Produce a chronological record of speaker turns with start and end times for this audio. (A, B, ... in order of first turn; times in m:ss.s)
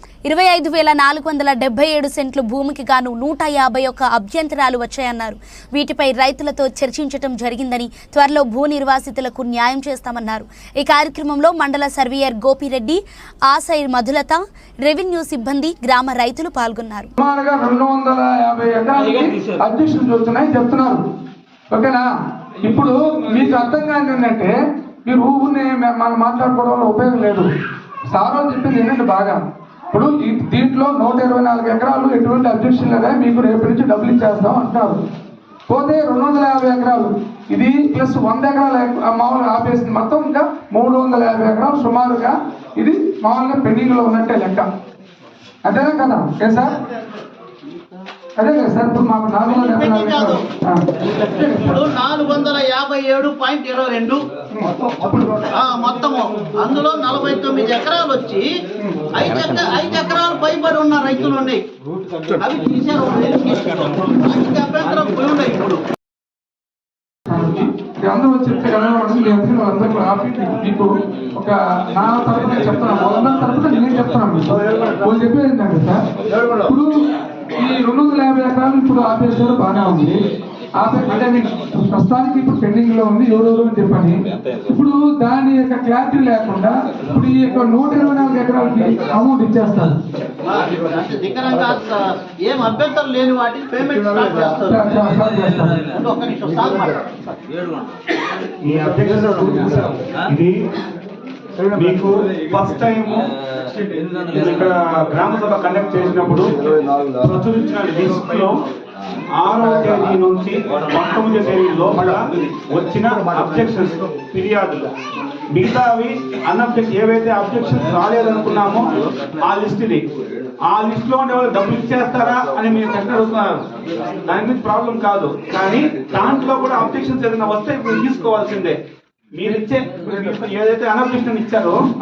0:00.3-0:17.1 A
0:17.2-0:21.0 B
0:21.7-0:22.1 B
0:22.6-0:24.5 B
0:25.0-0:27.5 B
0:28.1-0:29.4 B
0:29.9-0:35.0 B
0:35.7-0:44.7 B
0:45.6-0:46.8 B
0:48.4-0:51.8 B
0:49.5-0:50.4 C
0:51.4-0:54.2 C
0:54.5-0:55.5 B
0:55.5-0:58.5 C
0:58.8-0:59.0 B
0:59.2-1:01.6 C
1:02.4-1:05.8 C
1:07.3-1:16.0 B
1:16.6-1:20.2 B
1:20.8-1:30.0 B
1:30.4-1:34.8 C
1:34.7-1:35.8 B
1:35.9-1:37.4 C
1:38.6-1:40.7 D
1:41.7-1:43.3 D
1:44.3-1:46.6 D
1:47.2-1:48.6 D
1:49.4-1:54.9 D
1:55.5-2:00.1 D
2:00.6-2:03.6 D
2:04.3-2:08.8 D
2:09.4-2:11.8 D